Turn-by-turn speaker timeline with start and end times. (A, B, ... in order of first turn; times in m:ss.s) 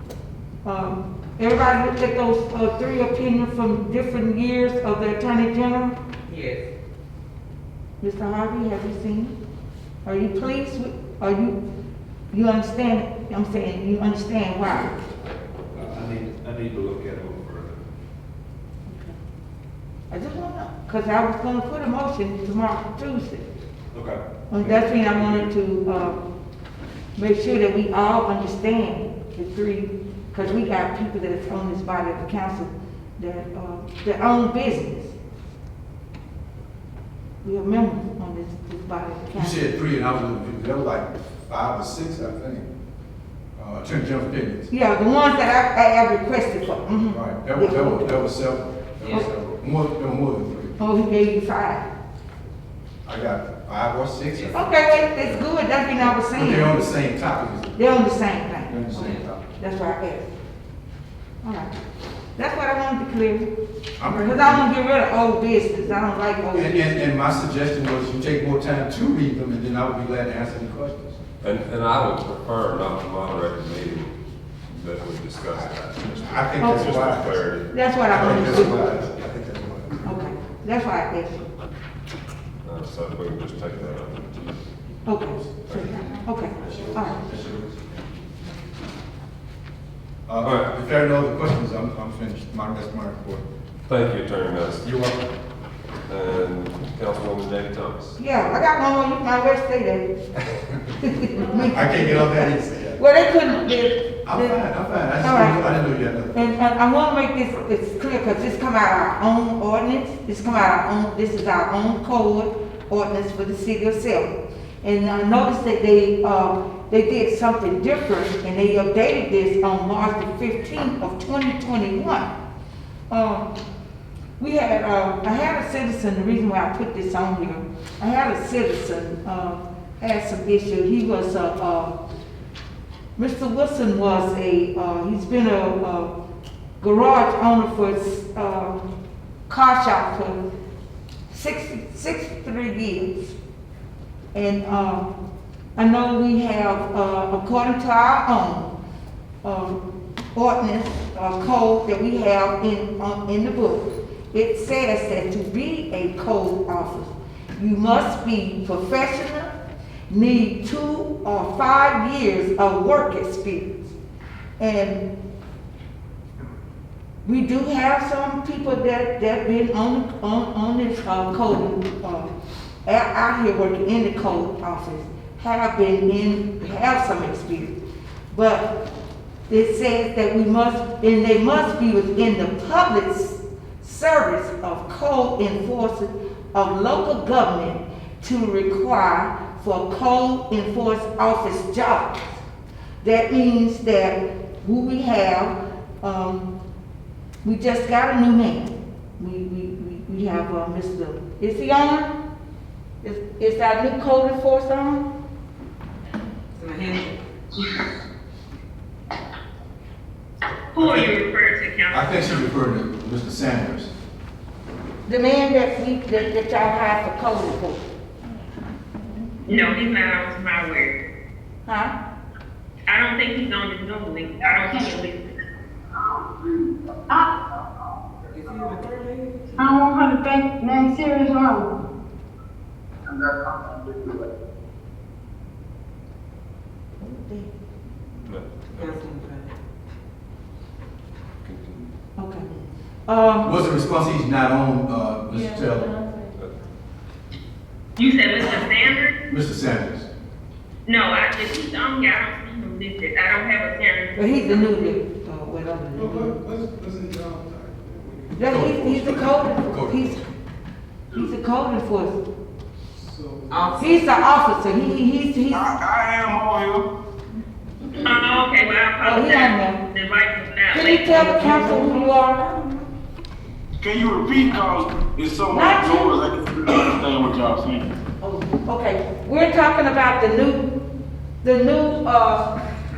0:00.6-0:06.0 A
0:06.3-0:06.6 B
0:08.0-0:09.3 A
0:10.0-0:11.6 A
0:12.3-0:14.9 A
0:15.7-0:17.8 C
0:18.9-0:19.1 A
0:20.1-0:23.4 A
0:23.9-0:25.4 C
0:24.5-0:26.2 A
0:27.2-0:35.1 A
0:37.4-0:39.7 A
0:39.4-0:42.6 D
0:43.6-0:44.7 D
0:44.7-0:48.1 A
0:47.1-0:50.8 D
0:50.8-0:51.8 A
0:53.0-0:55.5 D
0:54.5-0:56.9 A
0:56.0-0:57.8 D
0:57.7-1:00.3 A
0:58.7-0:59.4 D
1:01.4-1:01.7 A
1:02.4-1:03.5 A
1:04.0-1:04.7 D
1:04.1-1:07.1 A
1:06.5-1:11.2 D
1:11.4-1:14.1 E
1:14.7-1:17.7 E
1:15.6-1:17.4 D
1:16.6-1:16.9 A
1:17.7-1:18.9 A
1:18.1-1:20.2 D
1:18.3-1:18.6 E
1:20.0-1:21.5 A
1:22.6-1:24.5 E
1:25.0-1:27.2 A
1:30.3-1:33.4 D
1:33.9-1:34.8 E
1:34.8-1:35.2 D
1:36.1-1:38.1 E
1:38.2-1:40.1 A
1:41.0-1:44.6 A
1:41.6-1:43.0 D
1:44.2-1:46.4 D
1:45.2-1:45.8 A
1:46.3-1:54.3 A
1:54.8-2:02.3 A
2:03.1-2:03.4 A
2:04.4-2:11.9 A
2:13.2-2:16.1 A
2:16.8-2:18.8 A
2:19.5-2:20.4 A
2:21.3-2:23.4 A
2:24.3-2:25.1 A
2:25.8-2:28.7 A
2:29.4-2:29.8 A
2:30.3-2:39.5 A
2:40.1-2:43.9 A
2:44.6-2:45.0 A
2:47.2-2:52.3 A
2:52.8-2:57.8 A
2:58.3-2:58.7 A
2:59.5-3:12.4 A
3:13.0-3:16.5 A
3:17.4-3:22.1 A
3:23.0-3:25.0 A
3:26.6-3:27.0 B
3:30.7-3:32.5 F
3:30.8-3:31.1 D
3:31.9-3:33.9 D
3:35.0-3:37.8 A
3:39.4-3:40.9 F
3:41.6-3:41.9 A
3:42.9-3:45.2 F
3:44.4-3:44.9 G
3:46.2-3:47.3 G
3:48.3-3:49.8 B
3:49.6-3:51.7 G
3:53.1-3:54.2 G
3:57.0-3:57.5 A
3:58.2-3:59.0 E
3:58.8-3:59.5 B
4:01.4-4:01.9 E
4:02.2-4:02.5 A
4:03.1-4:03.6 A
4:03.4-4:05.9 D
4:08.0-4:09.2 F
4:09.3-4:10.1 D
4:10.8-4:14.7 F
4:14.2-4:16.3 A
4:16.0-4:16.5 D
4:16.4-4:18.2 B
4:18.3-4:20.2 D
4:18.4-4:20.2 A
4:21.1-4:22.2 A
4:23.2-4:24.0 B
4:23.8-4:25.7 A
4:25.5-4:26.9 H
4:28.0-4:31.6 F
4:29.0-4:29.8 A
4:30.7-4:32.5 A
4:33.8-4:37.8 H
4:35.5-4:36.2 A
4:38.2-4:40.7 A
4:41.4-4:42.5 A